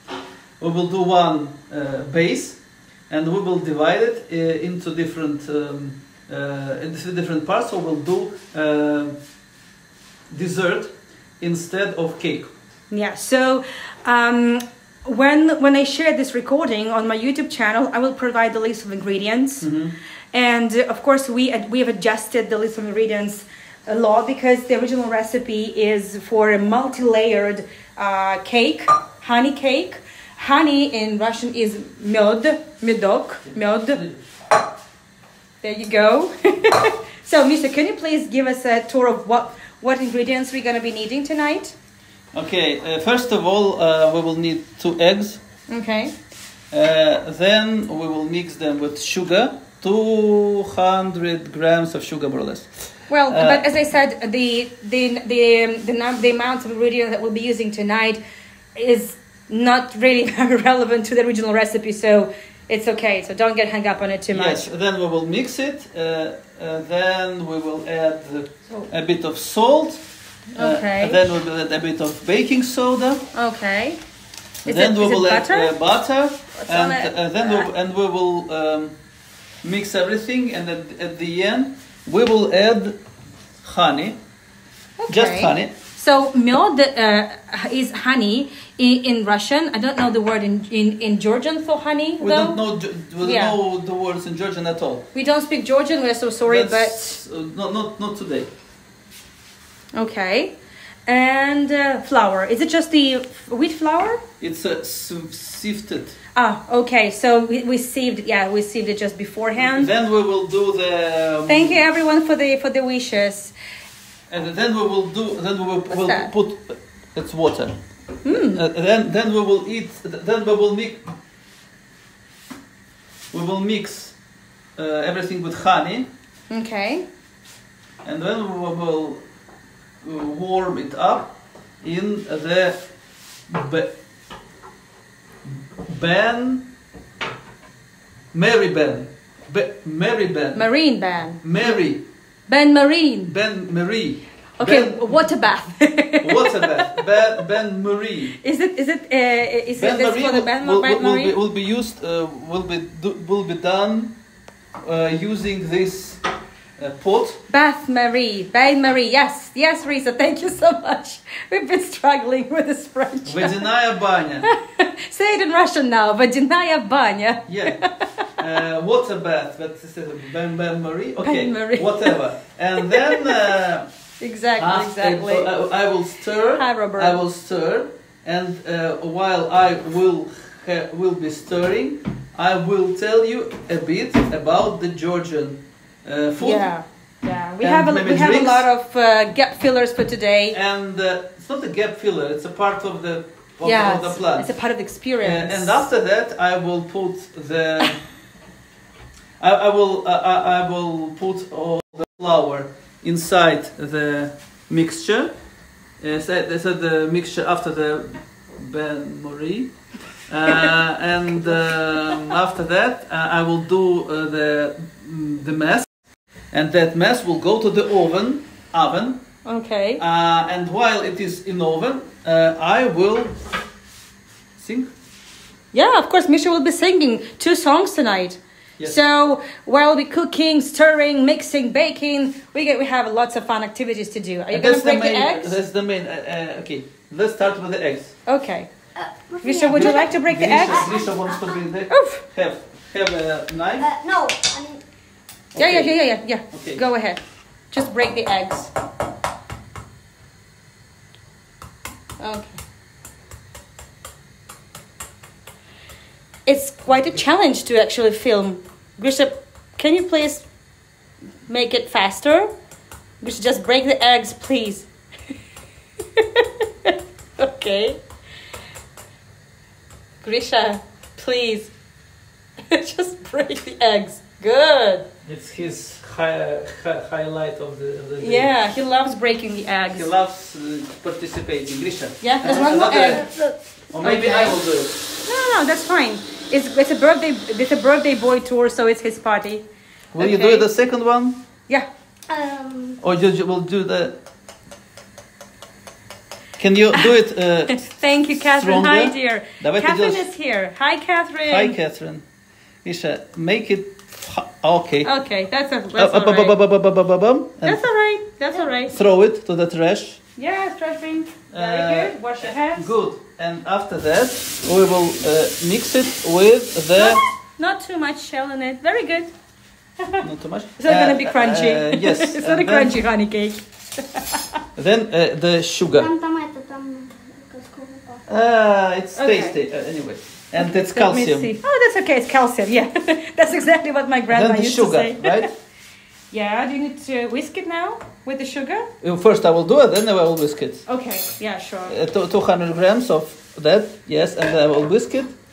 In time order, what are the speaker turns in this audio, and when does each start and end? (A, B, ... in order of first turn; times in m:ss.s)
0:00.6-0:09.2 A
0:10.3-0:12.5 A
0:12.9-0:19.7 B
0:19.6-0:19.9 A
0:20.3-0:34.0 B
0:33.5-0:34.2 A
0:35.6-0:41.7 B
0:42.3-0:45.4 A
0:45.7-0:46.1 B
0:46.7-0:53.6 A
0:53.1-0:58.2 B
0:58.7-1:04.7 B
1:04.3-1:10.0 A
1:10.5-1:11.2 B
1:10.6-1:13.3 A
1:13.3-1:14.0 B
1:14.6-1:15.8 B
1:14.6-1:18.9 A
1:16.6-1:17.7 B
1:19.6-1:23.0 A
1:23.6-1:24.2 A
1:25.0-1:32.6 B
1:25.1-1:25.7 A
1:32.2-1:35.1 A
1:33.2-1:33.6 B
1:35.1-1:37.2 B
1:36.4-1:38.5 A
1:39.9-1:40.5 B
1:41.1-1:44.2 B
1:44.4-1:46.2 A
1:46.4-1:49.9 B
1:49.6-1:51.8 A
1:51.5-1:53.5 B
1:54.3-1:57.8 A
1:55.9-1:56.3 B
1:58.2-1:58.6 B
1:58.3-2:01.0 A
2:03.3-2:04.1 A
2:04.8-2:06.1 A
2:06.5-2:07.0 B
2:08.0-2:09.2 A
2:10.0-2:12.8 A
2:13.5-2:14.0 A
2:15.4-2:16.7 A
2:18.3-2:20.6 A
2:20.5-2:21.4 B
2:21.4-2:22.0 A
2:22.5-2:23.3 B
2:23.2-2:25.2 A
2:24.6-2:27.4 B
2:26.2-2:28.4 A
2:28.4-2:31.4 B
2:29.8-2:34.1 A
2:34.8-2:36.2 A
2:36.8-2:37.4 A
2:37.5-2:43.6 B
2:43.2-2:44.5 A
2:44.4-2:48.3 B
2:47.5-2:53.9 A
2:51.2-2:52.2 B
2:52.8-2:53.4 B
2:54.2-2:55.5 B
2:54.6-3:06.7 A
2:56.6-2:57.2 B
3:06.4-3:10.6 B
3:07.6-3:08.6 A
3:10.5-3:14.5 A
3:13.6-3:15.8 B
3:15.2-3:18.0 A
3:19.4-3:25.3 A
3:26.0-3:29.7 A
3:30.3-3:35.9 A
3:36.5-3:39.2 A
3:39.4-3:40.0 B
3:40.0-3:43.4 A
3:44.6-3:44.9 A
3:45.7-3:55.5 B
3:54.5-3:58.1 A
3:58.2-3:58.7 B
3:59.0-4:01.6 C
3:59.4-4:00.9 B
3:59.6-4:03.9 A
4:01.9-4:02.2 B
4:03.8-4:04.8 C
4:05.5-4:07.2 B
4:05.6-4:06.0 A
4:06.5-4:06.8 A
4:07.7-4:08.7 B
4:12.2-4:12.6 B
4:16.4-4:20.4 B
4:21.5-4:22.5 B
4:23.2-4:24.9 B
4:26.1-4:28.0 B
4:30.2-4:31.7 B
4:32.6-4:35.1 B
4:35.2-4:38.5 A
4:38.2-4:40.1 B
4:39.9-4:43.3 A
4:42.2-4:43.4 B
4:43.9-4:45.0 A
4:44.0-4:44.6 B
4:45.2-4:49.6 B
4:50.1-4:51.4 A
4:50.2-4:50.7 B
4:52.3-4:53.0 C
4:53.0-4:54.2 A
4:56.6-5:00.2 A
4:57.7-5:01.8 B
5:01.5-5:02.2 A
5:02.8-5:05.1 A
5:05.0-5:06.6 B
5:06.0-5:07.8 A
5:07.6-5:09.0 B
5:08.9-5:10.2 A
5:10.4-5:12.9 B
5:11.5-5:17.2 A
5:17.0-5:19.3 B
5:20.2-5:23.0 A
5:20.8-5:24.6 B
5:24.8-5:26.1 A
5:26.0-5:28.2 C
5:28.3-5:31.5 A
5:29.2-5:29.6 B
5:30.6-5:35.5 B
5:34.3-5:35.5 A
5:36.3-5:38.9 B
5:39.0-5:40.8 A
5:40.9-5:42.0 B
5:41.9-5:45.3 A